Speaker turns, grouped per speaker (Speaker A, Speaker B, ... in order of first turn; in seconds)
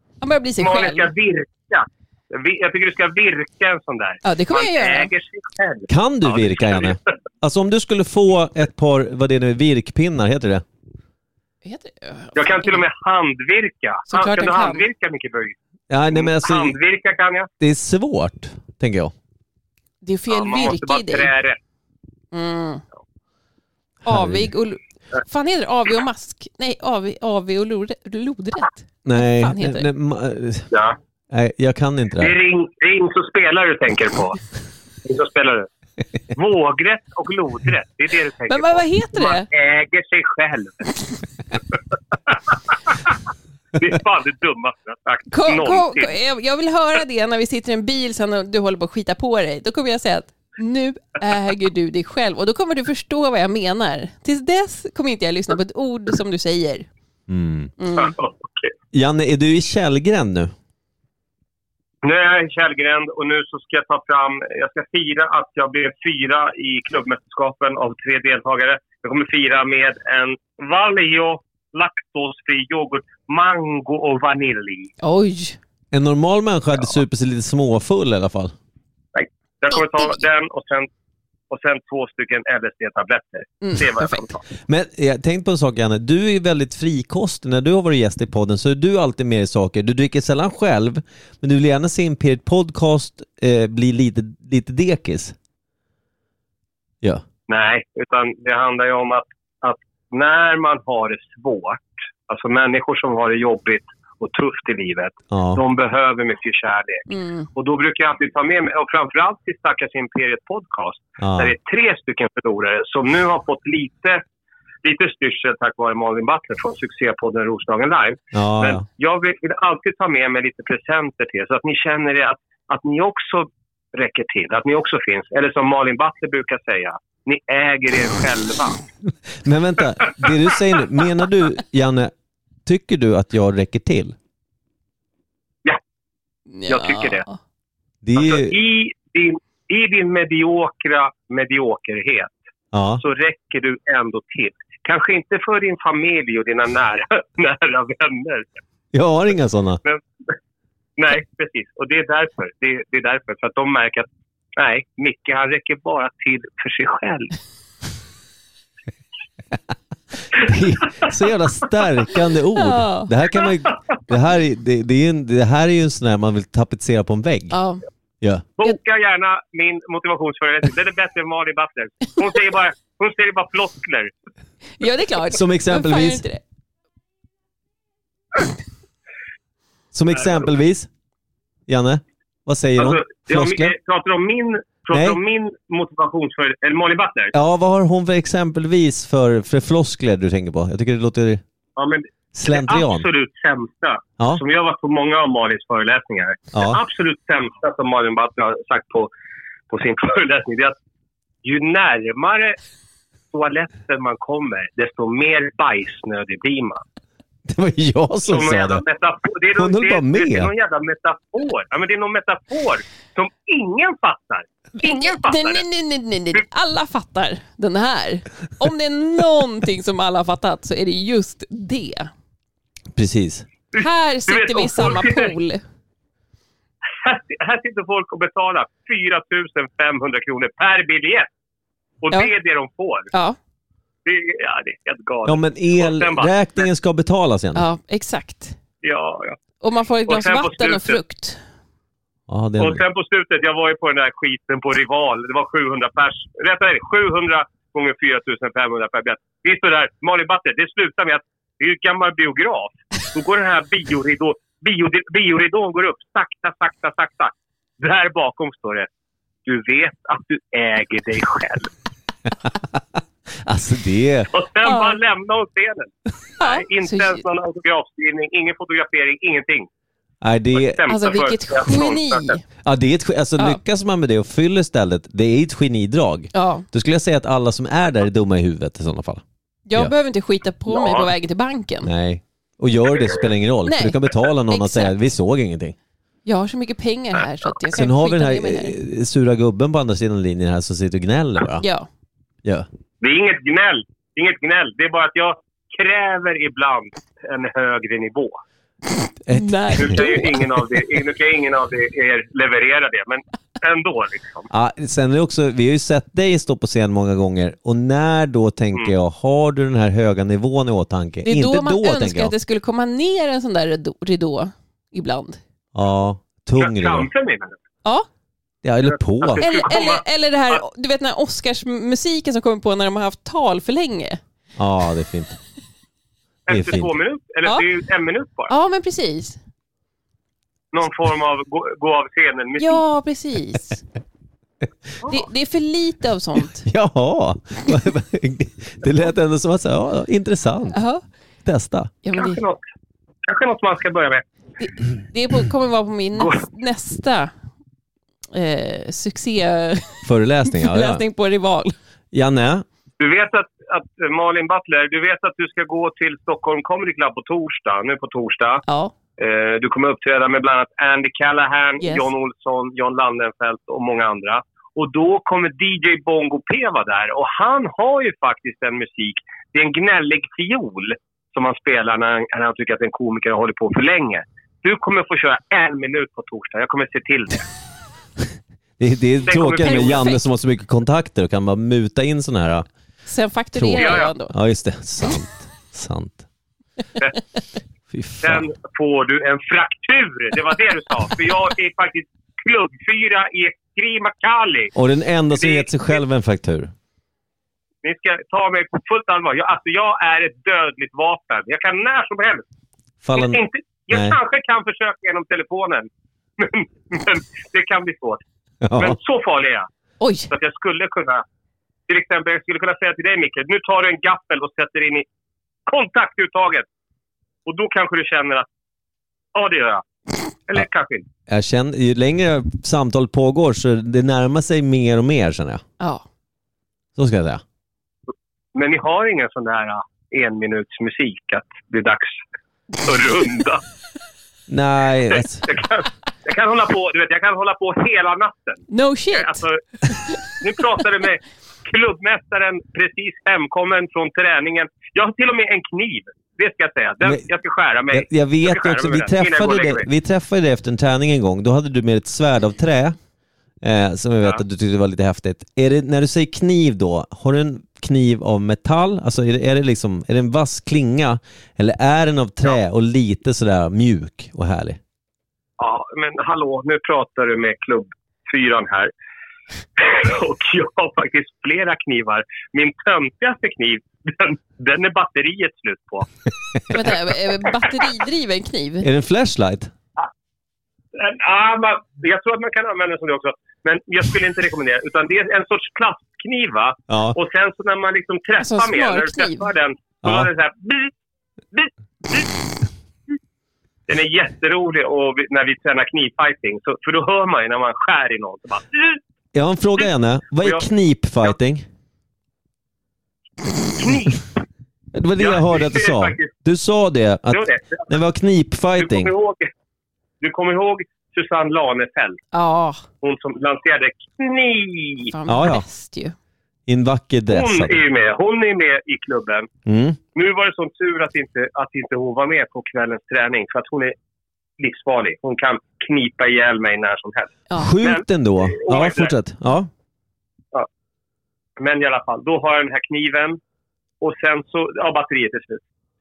Speaker A: 0.2-1.1, 4.2-5.1, 11.7-12.8, 14.1-14.9, 20.0-21.3, 22.3-22.8, 24.1-29.9, 38.5-39.5, 45.3-56.9, 57.8-58.1, 75.0-75.6, 79.7-80.2, 83.6-84.4, 107.1-107.5, 136.5-137.4, 162.6-163.1, 167.5-167.8, 174.8-176.4, 214.8-222.1, 223.8-225.6, 233.1-233.4, 237.6-238.6, 239.6-241.4, 264.6-265.0, 266.4-267.2, 270.9-272.4, 276.3-276.7, 279.7-281.9, 283.7-284.9, 286.3-288.8, 291.6-291.9, 299.3-300.3, 311.3-315.4, 319.4-324.2, 328.5-329.4, 332.6-333.8, 335.1-336.7, 340.7-341.0, 342.0-342.4, 344.6-347.3, 348.3-351.7, 358.7-358.9, 361.8-362.1, 379.6-380.2, 383.1-384.3, 410.0-410.3, 438.7-440.1, 476.7-478.9, 488.4-489.5, 512.3-512.8, 515.1-516.1
Speaker B: 0.6-7.0, 12.3-15.6, 16.1-17.5, 20.3-21.6, 32.2-34.4, 35.0-35.7, 36.4-40.9, 42.3-43.1, 43.8-46.1, 58.0-58.7, 62.0-74.9, 79.2-80.9, 81.5-84.4, 97.5-114.2, 114.8-128.8, 136.7-137.2, 138.2-142.3, 143.0-148.5, 149.8-150.3, 151.0-157.3, 168.6-174.1, 182.8-187.3, 191.8-199.1, 199.7-200.8, 201.4-202.6, 203.3-206.8, 208.3-215.6, 223.7-225.3, 227.0-231.3, 232.0-233.1, 234.1-236.3, 238.8-239.4, 240.1-241.0, 242.6-258.9, 259.4-261.7, 264.3-269.7, 270.6-272.4, 280.7-281.1, 293.0-298.4, 299.8-304.5, 316.6-317.6, 319.2-320.6, 326.5-328.5, 330.7-332.8, 342.1-342.6, 343.3-344.2, 353.0-358.6, 359.2-377.5, 379.3-380.1, 383.8-384.1, 388.2-394.7, 395.4-395.7, 397.8-402.4, 403.1-408.2, 408.8-409.7, 410.3-411.2, 411.9-415.1, 415.7-416.7, 417.5-418.5, 419.4-419.9, 420.5-421.1, 428.6-432.2, 432.8-433.6, 435.1-439.6, 440.3-449.9, 465.6-468.9, 469.8-476.1, 480.9-490.9, 491.5-492.4, 493.9-499.0, 503.8-504.3, 505.2-506.3, 507.3-507.9, 508.8-509.5, 510.2-512.2, 513.0-515.1, 517.3-519.5, 520.1-524.0, 524.6-529.1, 531.6-533.4, 534.0-535.6
Speaker C: 5.9-10.6, 15.9-16.8, 17.6-19.1, 24.1-24.5, 29.1-30.7, 31.3-32.4, 57.3-57.7, 58.9-60.5, 75.9-78.5, 84.7-95.3, 105.3-105.6, 111.2-111.5, 118.3-118.8, 129.4-132.1, 132.7-134.2, 138.0-138.6, 142.7-143.0, 148.9-149.8, 160.3-167.6, 168.2-168.5, 175.3-176.2, 179.9-180.9, 181.7-183.8, 184.9-185.2, 187.3-191.4, 192.3-193.1, 196.5-196.8, 207.5-208.8, 209.6-210.5, 222.9-223.5, 235.2-237.6, 242.3-242.8, 263.4-264.3, 270.2-270.8, 272.6-279.2, 281.8-285.8, 287.7-291.7, 299.2-300.3, 304.5-312.3, 315.8-317.1, 318.6-319.4, 324.6-325.4, 326.5-326.9, 336.6-340.8, 341.4-341.9, 350.1-351.0, 352.1-352.6, 378.8-382.7, 383.6-386.2, 387.9-388.5, 394.8-396.7, 403.0-404.2, 408.6-409.0, 421.3-425.6, 427.0-427.4, 434.5-435.5, 447.9-453.0, 453.6-464.8, 478.8-479.7, 486.9-487.2, 490.0-490.3, 499.3-501.6, 504.9-509.1, 515.3-515.6, 516.7-517.8, 519.7-520.0, 527.5-529.7